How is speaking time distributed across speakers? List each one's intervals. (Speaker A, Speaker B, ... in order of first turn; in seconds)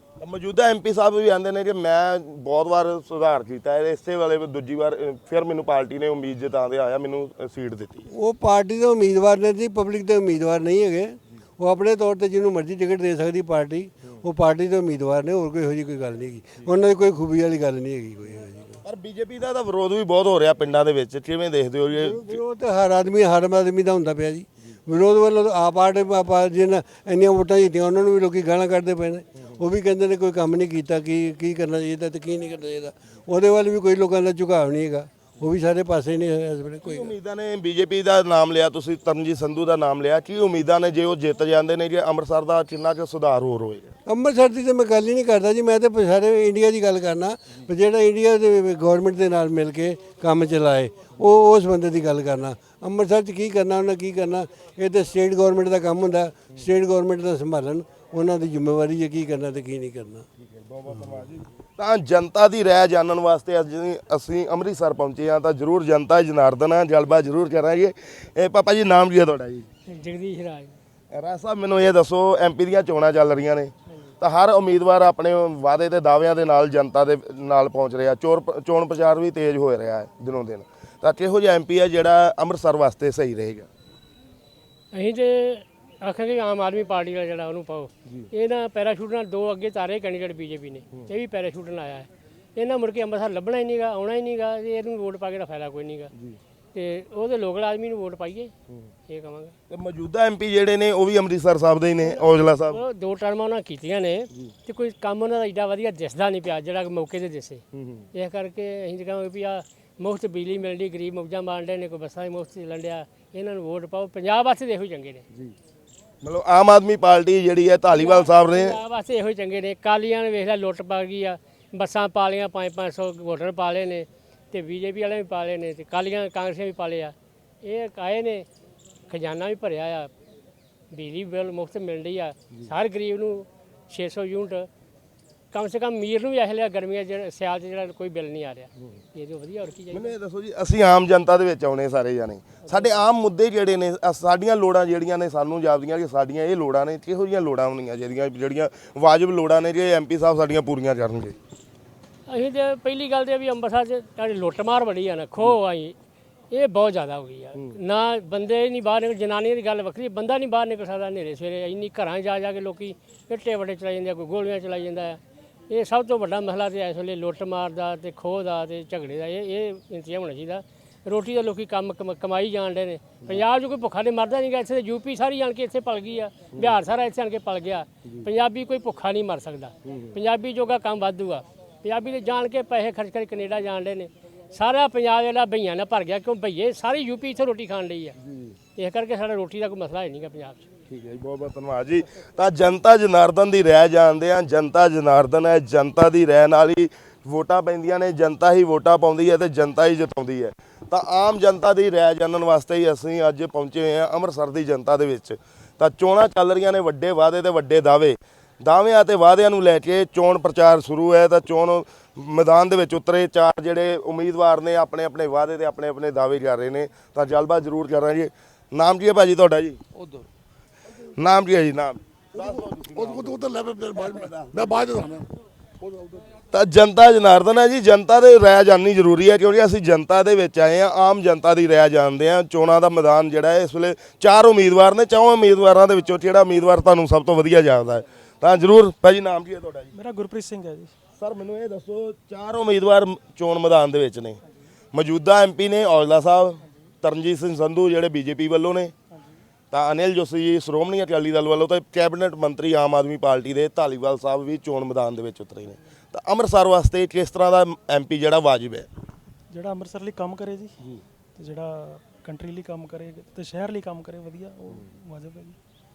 Speaker A: 0.2-8.1, 18.9-22.4, 36.8-43.9, 60.5-69.7, 71.1-83.7, 99.7-102.8, 107.8-108.0, 116.2-118.8, 139.9-151.4, 179.9-180.1, 188.3-188.5, 190.9-219.8, 221.2-223.4, 224.1-224.5, 226.5-239.9, 241.2-244.4, 244.9-248.9, 249.7-258.9
Speaker B: 8.1-18.8, 21.9-37.1, 44.1-60.3
Speaker C: 69.9-70.8, 84.9-96.1, 96.7-98.5, 99.1-99.5, 102.0-107.6, 108.1-115.2, 117.9-128.5, 129.1-130.1, 130.9-134.7, 135.5-140.2, 152.3-155.9, 156.5-165.2, 165.7-188.2, 188.8-190.7
Speaker D: 222.4-225.3
Speaker E: 239.9-240.9, 259.5-260.7, 261.4-265.6